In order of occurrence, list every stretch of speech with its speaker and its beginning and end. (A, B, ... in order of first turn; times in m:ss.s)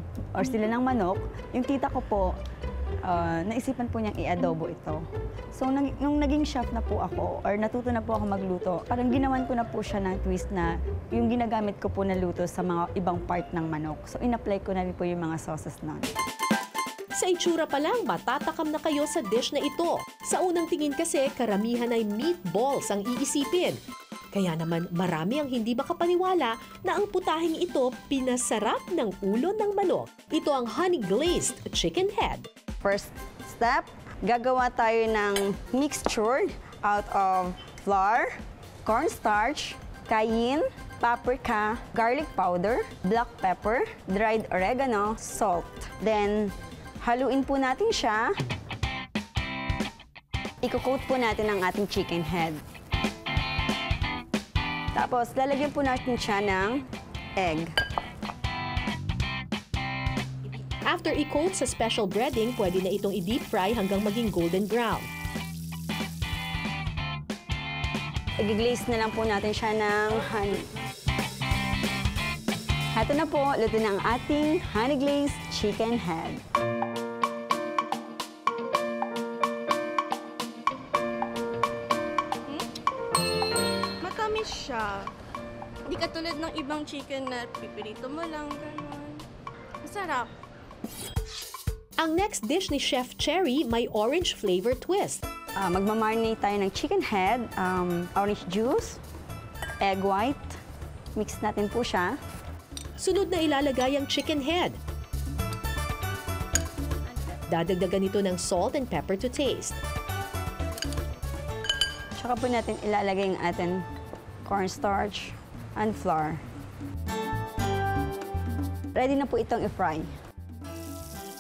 0:00.3-0:02.3 A
0:03.1-0:05.0 A
0:05.5-0:16.1 A
0:17.2-0:23.8 B
0:24.3-0:32.4 B
0:32.8-0:48.3 A
0:50.6-0:52.6 A
0:55.0-0:57.7 A
1:00.8-1:05.1 B
1:08.4-1:10.7 A
1:12.9-1:16.4 A
1:24.0-1:25.0 C
1:25.9-1:29.2 C
1:29.8-1:30.3 C
1:32.0-1:35.2 B
1:35.6-1:39.0 A
1:39.8-1:40.6 A
1:41.2-1:42.2 A
1:43.0-1:44.8 B
1:47.5-1:49.8 B
1:52.2-1:53.8 A
1:54.5-1:56.4 A
1:59.0-2:00.1 A